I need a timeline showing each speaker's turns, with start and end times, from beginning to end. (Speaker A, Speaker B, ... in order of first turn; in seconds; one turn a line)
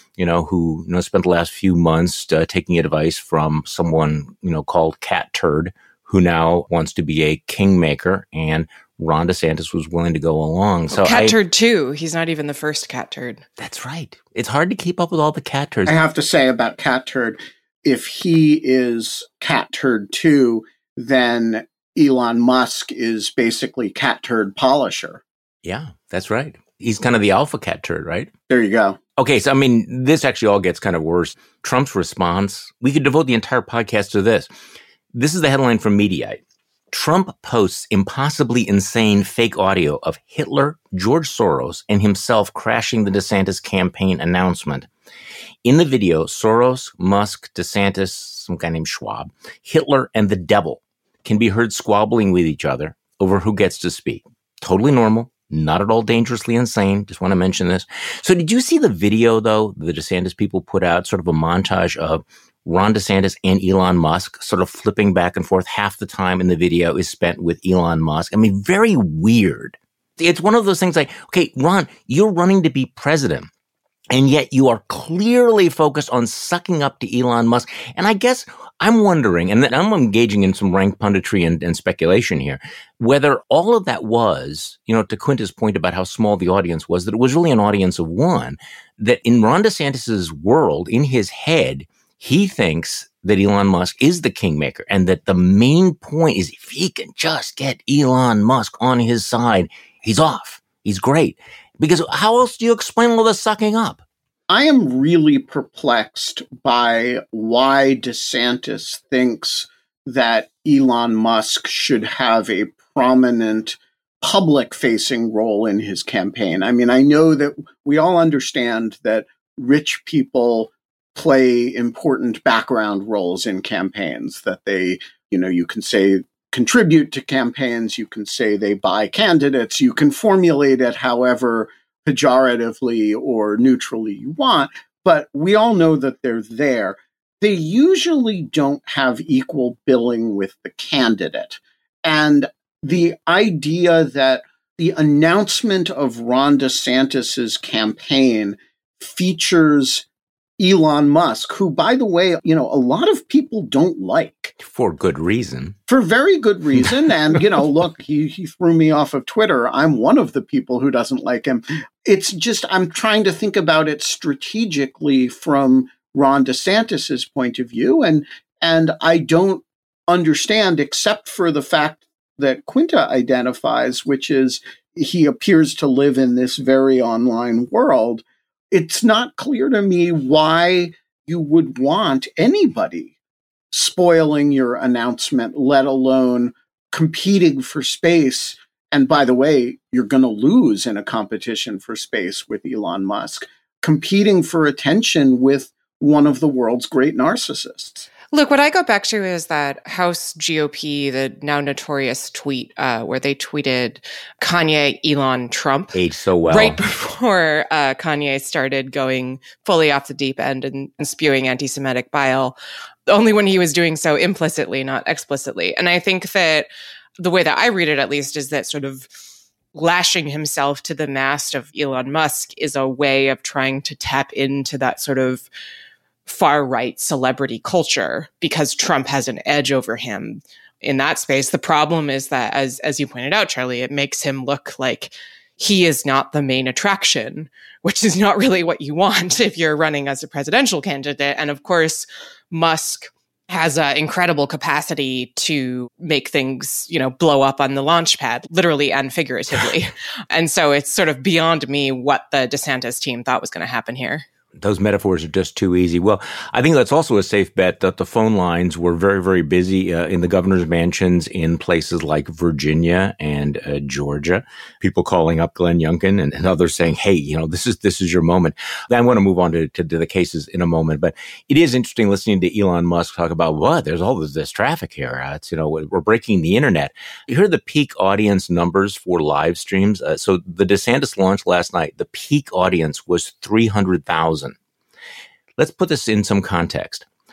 Speaker A: 0.2-11.3
Speaker B: 10.9-13.4
Speaker A: 13.6-15.9
Speaker C: 15.9-25.2
Speaker A: 25.6-28.3
Speaker C: 28.5-29.0
Speaker A: 29.2-34.5
Speaker A: 35.1-36.4
Speaker A: 36.9-44.9
Speaker A: 45.6-73.5
Speaker A: 74.1-104.0
Speaker C: 104.5-150.0
Speaker C: 150.6-154.5
Speaker A: 154.6-155.8
Speaker C: 155.9-183.1
Speaker C: 183.7-198.1
Speaker B: 198.3-212.6
Speaker A: 205.9-206.8
Speaker B: 213.1-216.7
Speaker B: 217.2-219.1
Speaker B: 219.7-225.5
Speaker B: 226.2-254.2
Speaker A: 254.6-284.5
Speaker A: 285.6-287.1